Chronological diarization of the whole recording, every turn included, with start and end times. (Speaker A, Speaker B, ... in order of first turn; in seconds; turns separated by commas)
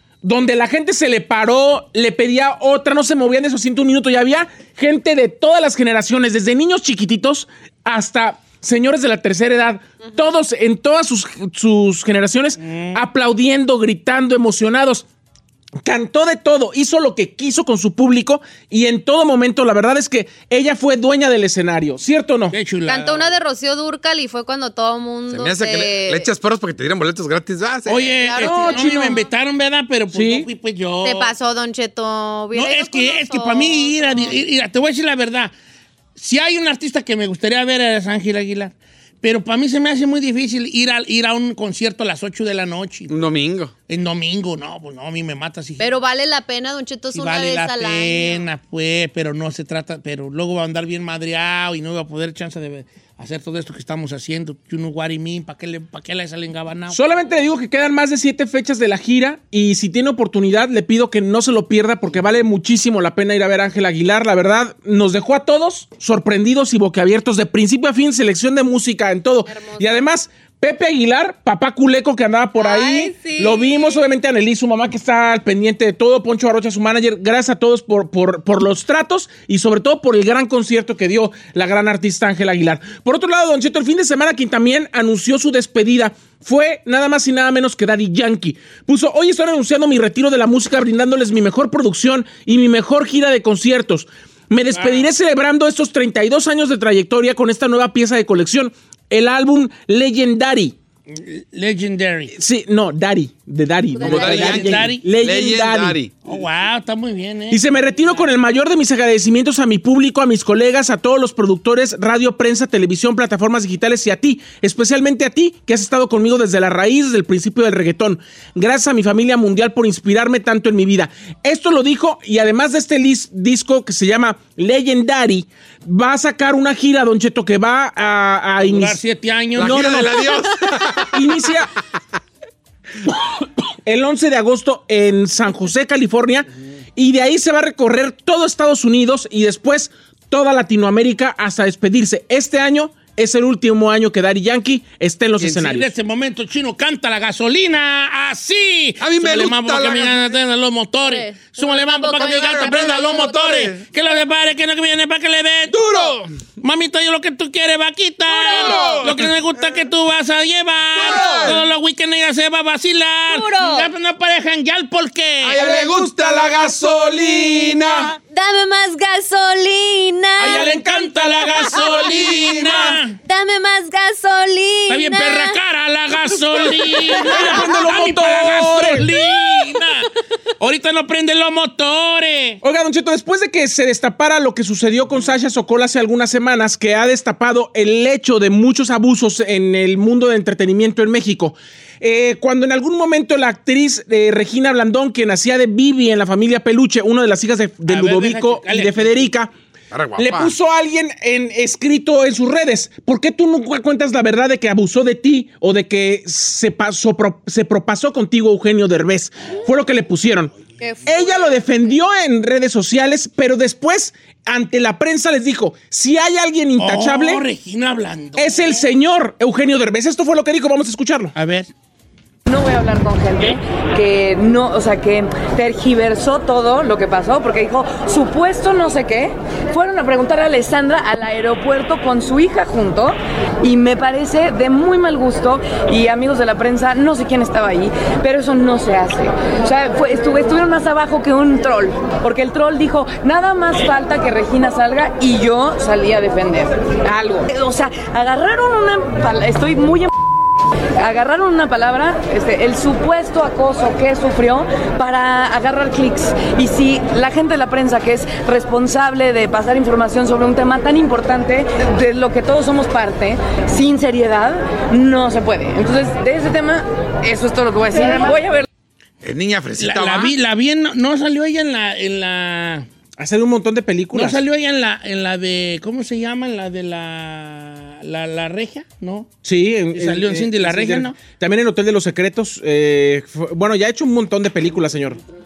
Speaker A: 0.2-15.1, Speaker B: 12.7-13.0, Speaker A: 15.8-22.6, Speaker B: 22.5-23.3, Speaker C: 22.9-26.3, Speaker D: 25.3-28.2, Speaker B: 27.9-31.3, Speaker C: 28.2-29.2, Speaker A: 28.4-29.2, Speaker A: 30.1-30.5, Speaker C: 31.0-34.4, Speaker B: 32.5-35.5, Speaker B: 36.2-43.1, Speaker D: 43.1-43.7, Speaker B: 43.9-45.9, Speaker C: 45.8-48.4, Speaker B: 47.1-57.0, Speaker A: 56.9-100.8, Speaker C: 69.5-70.0, Speaker C: 72.6-74.0, Speaker B: 94.7-95.1, Speaker B: 101.1-102.3, Speaker A: 102.3-106.0, Speaker D: 104.0-106.1, Speaker B: 104.0-105.0, Speaker B: 106.2-107.6, Speaker A: 107.5-129.0, Speaker B: 128.6-130.2, Speaker A: 129.6-130.3, Speaker D: 129.6-131.3, Speaker A: 131.1-131.7, Speaker A: 133.9-145.9, Speaker B: 145.4-155.8, Speaker D: 149.0-150.3, Speaker C: 151.0-153.4, Speaker D: 152.2-153.8, Speaker D: 155.7-156.3, Speaker B: 156.6-165.7, Speaker D: 158.3-159.3, Speaker C: 158.3-159.0, Speaker D: 160.9-161.6, Speaker C: 163.3-163.9, Speaker D: 165.4-168.2, Speaker A: 165.7-166.0, Speaker C: 168.3-170.8, Speaker A: 170.4-173.0, Speaker B: 170.4-173.2, Speaker C: 171.6-172.5, Speaker C: 173.2-175.6, Speaker B: 174.9-180.1, Speaker A: 176.5-179.1, Speaker C: 176.5-177.5, Speaker C: 179.2-179.9, Speaker B: 180.6-182.6, Speaker A: 182.6-199.5, Speaker B: 197.9-199.3, Speaker D: 199.9-200.6, Speaker A: 200.2-210.5, Speaker C: 210.8-212.0, Speaker A: 211.1-217.4, Speaker B: 216.8-218.9, Speaker A: 218.4-221.3, Speaker B: 221.4-221.7, Speaker E: 222.5-250.1, Speaker E: 251.0-268.7, Speaker D: 269.2-270.4, Speaker B: 269.8-272.9, Speaker A: 273.2-274.4, Speaker B: 274.1-279.3, Speaker A: 279.4-285.2, Speaker B: 279.9-281.2